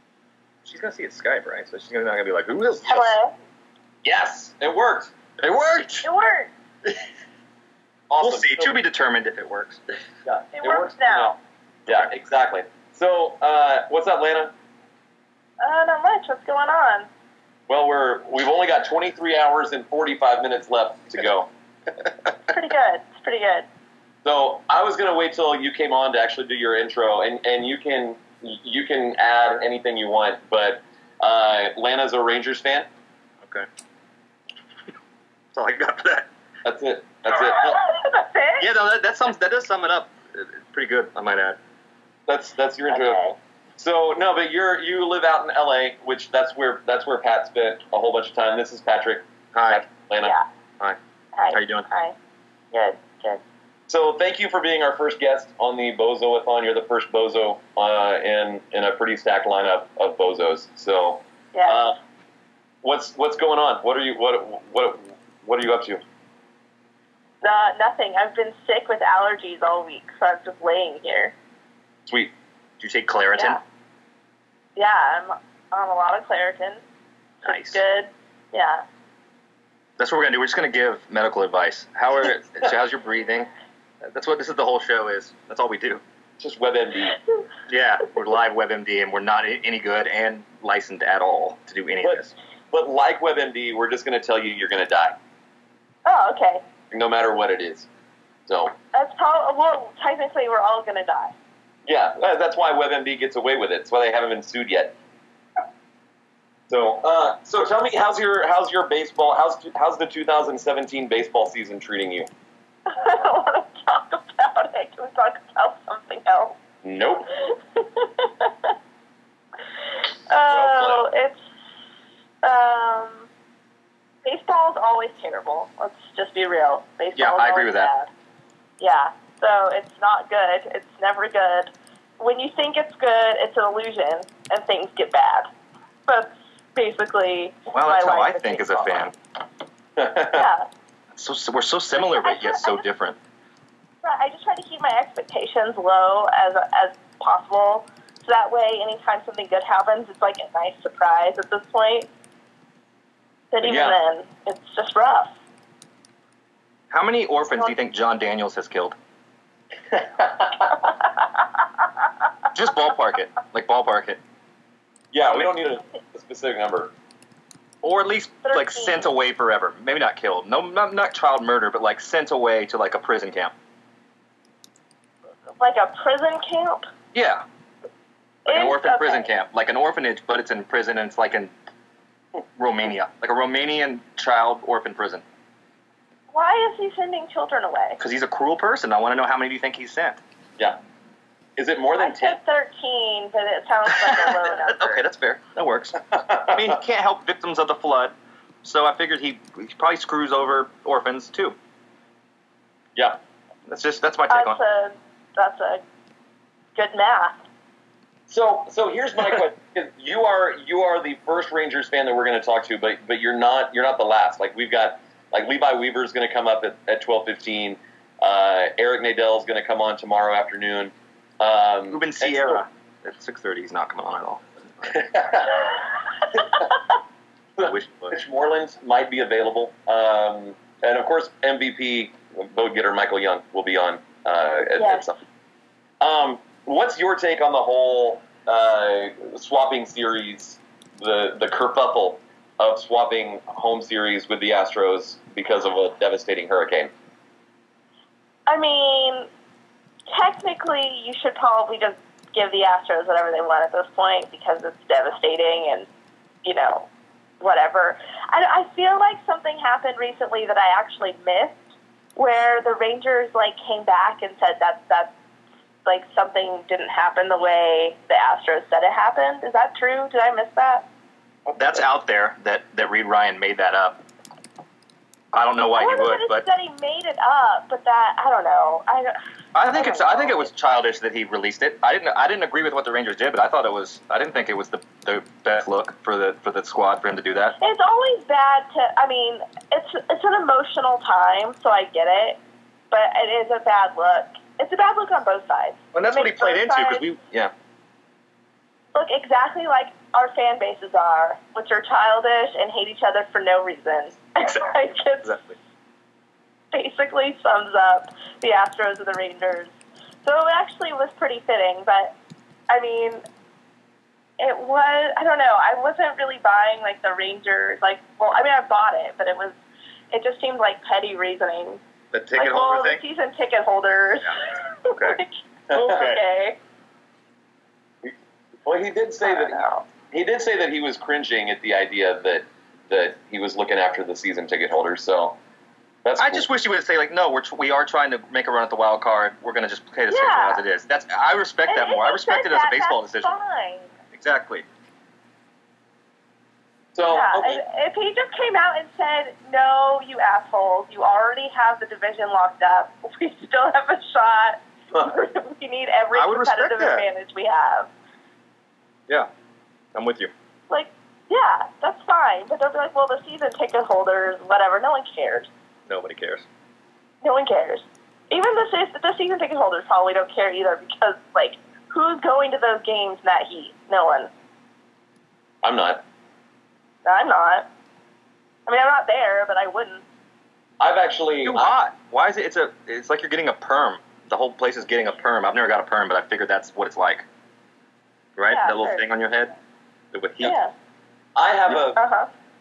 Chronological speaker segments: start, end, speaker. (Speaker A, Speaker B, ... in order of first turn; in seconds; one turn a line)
Speaker A: 0.6-3.1
Speaker B: 2.9-3.3
Speaker C: 4.0-6.0
Speaker B: 6.0-6.5
Speaker C: 8.1-8.8
Speaker A: 8.2-9.8
Speaker C: 10.2-11.3
Speaker B: 10.5-11.3
Speaker C: 11.9-14.5
Speaker B: 15.6-17.1
Speaker C: 17.7-21.5
Speaker B: 22.4-23.7
Speaker C: 24.2-32.9
Speaker A: 35.5-36.3
Speaker C: 36.6-37.8
Speaker B: 37.4-38.7
Speaker A: 38.6-41.6
Speaker C: 42.3-50.4
Speaker B: 42.9-43.3
Speaker A: 49.5-49.8
Speaker B: 51.3-52.1
Speaker A: 51.5-51.9
Speaker B: 52.7-53.4
Speaker C: 53.9-62.0
Speaker B: 61.5-61.9
Speaker C: 62.8-66.0
Speaker B: 67.4-71.3
Speaker C: 72.0-72.3
Speaker A: 72.8-73.6
Speaker B: 73.3-73.6
Speaker B: 74.8-76.8
Speaker B: 77.4-78.8
Speaker A: 77.4-77.8
Speaker A: 80.0-83.5
Speaker A: 84.0-86.0
Speaker C: 86.4-87.2
Speaker A: 87.7-92.3
Speaker C: 92.0-95.2
Speaker B: 96.0-96.6
Speaker C: 96.9-97.9
Speaker C: 98.5-98.7
Speaker B: 98.9-101.3
Speaker C: 101.8-105.0
Speaker C: 106.7-112.3
Speaker B: 112.9-116.6
Speaker C: 116.8-117.3
Speaker B: 117.3-118.7
Speaker B: 120.3-121.4
Speaker C: 120.5-121.0
Speaker B: 122.4-123.3
Speaker B: 124.2-128.1
Speaker A: 127.2-127.9
Speaker B: 128.8-135.5
Speaker B: 136.1-139.0
Speaker A: 137.7-139.1
Speaker C: 140.0-140.4
Speaker B: 140.3-140.7
Speaker A: 141.1-143.2
Speaker B: 141.9-142.8
Speaker B: 144.0-152.1
Speaker B: 153.5-155.3
Speaker C: 153.6-154.0
Speaker A: 156.9-158.9
Speaker A: 162.5-164.2
Speaker C: 165.1-166.9
Speaker A: 167.8-173.5
Speaker B: 168.4-169.1
Speaker B: 175.6-176.8
Speaker A: 177.1-177.4
Speaker A: 178.4-181.5
Speaker B: 178.5-179.3
Speaker A: 182.6-185.2
Speaker B: 186.3-188.0
Speaker A: 188.0-190.2
Speaker C: 191.6-192.4
Speaker B: 192.0-195.0
Speaker A: 193.9-201.6
Speaker C: 196.1-196.5
Speaker A: 203.7-204.6
Speaker B: 204.3-205.8
Speaker B: 206.8-207.4
Speaker C: 208.3-222.6
Speaker A: 221.9-225.1
Speaker C: 224.9-226.7
Speaker C: 227.6-235.2
Speaker A: 227.6-228.2
Speaker B: 234.8-235.1
Speaker C: 236.0-246.9
Speaker B: 248.5-249.3
Speaker B: 250.1-255.9
Speaker B: 256.4-256.9
Speaker B: 257.4-261.6
Speaker B: 262.1-265.1
Speaker B: 265.8-270.9
Speaker A: 271.5-274.0
Speaker A: 275.3-276.4
Speaker B: 275.8-279.1
Speaker A: 279.5-287.6
Speaker B: 279.7-280.5
Speaker B: 287.6-292.4
Speaker B: 292.9-297.1
Speaker A: 295.9-297.5
Speaker B: 298.9-305.4
Speaker A: 305.2-305.6
Speaker B: 306.7-309.7
Speaker B: 310.2-312.1
Speaker B: 312.7-313.2
Speaker B: 314.4-319.6
Speaker B: 320.1-321.8
Speaker A: 322.1-323.0
Speaker B: 322.4-326.6
Speaker A: 324.9-325.2
Speaker A: 325.7-326.2
Speaker C: 328.0-335.4
Speaker B: 329.2-329.9
Speaker C: 336.0-336.5
Speaker A: 336.2-343.3
Speaker B: 340.1-340.6
Speaker B: 341.7-343.9
Speaker A: 344.1-344.6
Speaker C: 346.9-347.6
Speaker B: 347.1-357.9
Speaker A: 356.1-357.1
Speaker A: 359.9-360.3
Speaker B: 360.7-365.5
Speaker A: 365.9-366.4
Speaker B: 367.2-374.3
Speaker C: 375.6-376.0
Speaker B: 377.0-377.7
Speaker B: 378.6-380.0
Speaker C: 380.8-381.8
Speaker A: 381.4-387.2
Speaker A: 388.4-389.5
Speaker B: 388.5-389.1
Speaker A: 390.1-390.5
Speaker B: 390.4-390.7
Speaker C: 391.4-392.0
Speaker B: 391.7-392.3